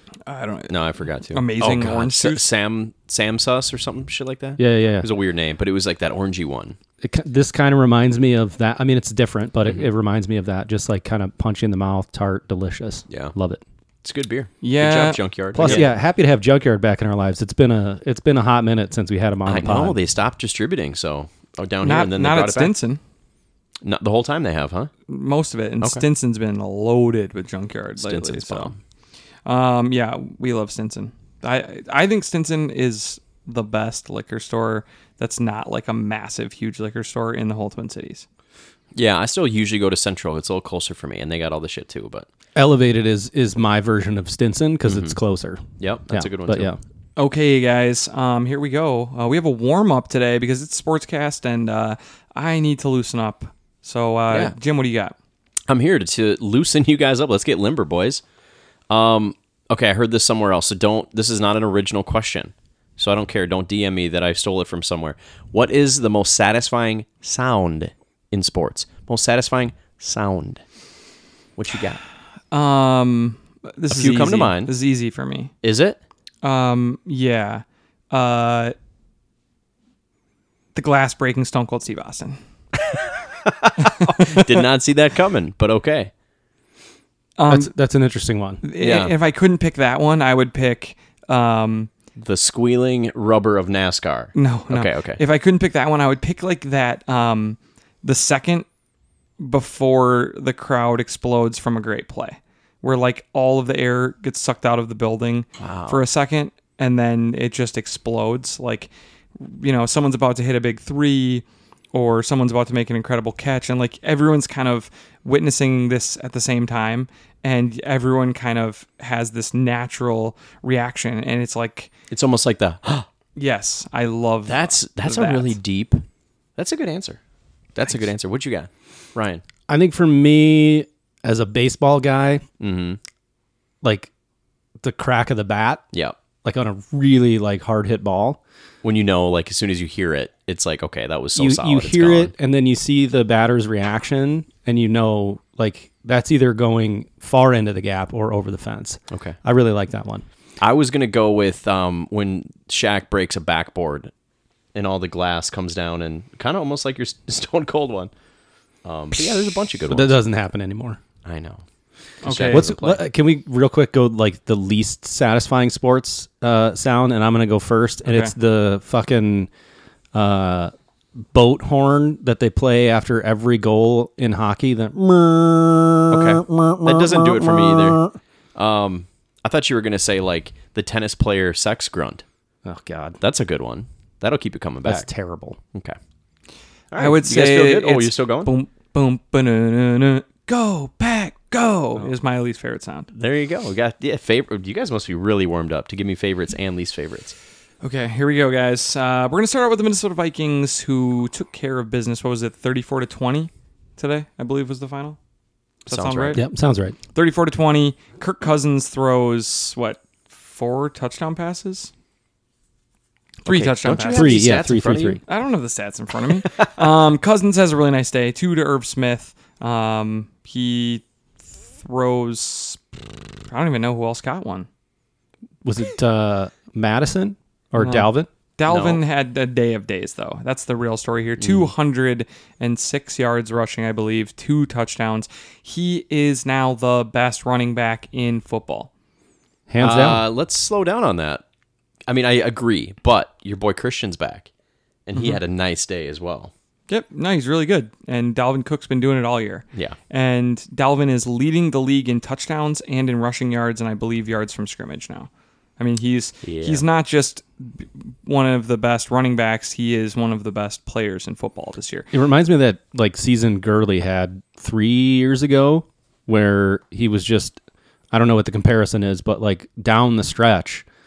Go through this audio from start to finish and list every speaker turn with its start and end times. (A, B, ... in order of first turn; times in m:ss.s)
0:00.2-0:00.7 A
0:00.7-0:06.8 B
0:01.3-0:02.4 A
0:04.6-0:05.1 C
0:07.0-0:13.6 C
0:14.0-0:15.9 B
0:14.6-0:15.8 A
0:15.5-0:20.0 C
0:19.4-0:22.7 B
0:21.8-0:23.0 A
0:23.8-0:24.9 B
0:25.1-0:28.7 A
0:28.0-0:28.8 B
0:29.4-0:38.2 A
0:38.9-0:42.3 B
0:42.5-0:46.8 C
0:44.8-0:45.1 B
0:45.8-0:46.7 B
0:47.2-0:55.1 A
0:55.7-0:58.2 B
0:58.9-1:10.6 B
1:11.6-1:12.0 B
1:12.5-1:15.5 A
1:13.9-1:14.7 B
1:15.6-1:16.0 B
1:16.4-1:18.7 A
1:20.7-1:22.4 A
1:23.4-1:26.1 B
1:24.0-1:24.5 A
1:27.4-1:27.7 A
1:27.5-1:28.6 C
1:28.6-1:31.9 A
1:28.8-1:29.1 B
1:32.2-1:35.2 B
1:34.3-1:38.6 A
1:39.4-2:01.9 A
1:45.6-1:46.0 B
2:02.1-2:03.1 B
2:03.4-2:05.6 A
2:04.5-2:06.0 B
2:06.6-2:07.2 B
2:07.7-2:09.4 B
2:09.7-2:12.4 C
2:12.6-2:13.0 B
2:13.8-2:14.1 C
2:14.8-2:15.8 C
2:16.4-2:18.4 C
2:18.8-2:22.3 B
2:21.4-2:30.2 C
2:29.1-2:29.4 B
2:30.6-2:34.1 B
2:34.7-2:38.1 B
2:38.8-2:40.2 B
2:39.9-2:41.0 C
2:41.2-2:41.6 B
2:42.2-2:42.7 A
2:42.2-2:43.0 B
2:42.5-2:49.5 C
2:48.0-2:48.3 A
2:50.1-2:58.2 C
2:56.1-3:02.2 B
3:02.6-3:03.2 C
3:03.2-3:05.1 B
3:04.8-3:05.6 C
3:06.9-3:08.5 B
3:07.0-3:13.1 A
3:13.1-3:17.3 B
3:17.8-3:25.2 A
3:25.8-3:26.4 A
3:25.9-3:26.4 B
3:26.3-3:27.0 C
3:27.1-3:31.9 A
3:33.4-3:34.4 A
3:33.4-3:35.2 B
3:33.9-3:35.2 C
3:35.2-3:43.0 A
3:43.5-3:44.7 A
3:45.6-3:48.3 C
3:47.8-3:58.9 A
3:48.7-3:49.0 B
3:51.4-3:51.7 B
3:59.7-4:00.2 C
3:59.8-4:01.4 B
4:02.1-4:04.5 B
4:05.1-4:06.5 B
4:05.1-4:05.4 A
4:06.9-4:22.1 A
4:16.4-4:16.8 B
4:22.1-4:27.6 C
4:28.1-4:30.8 C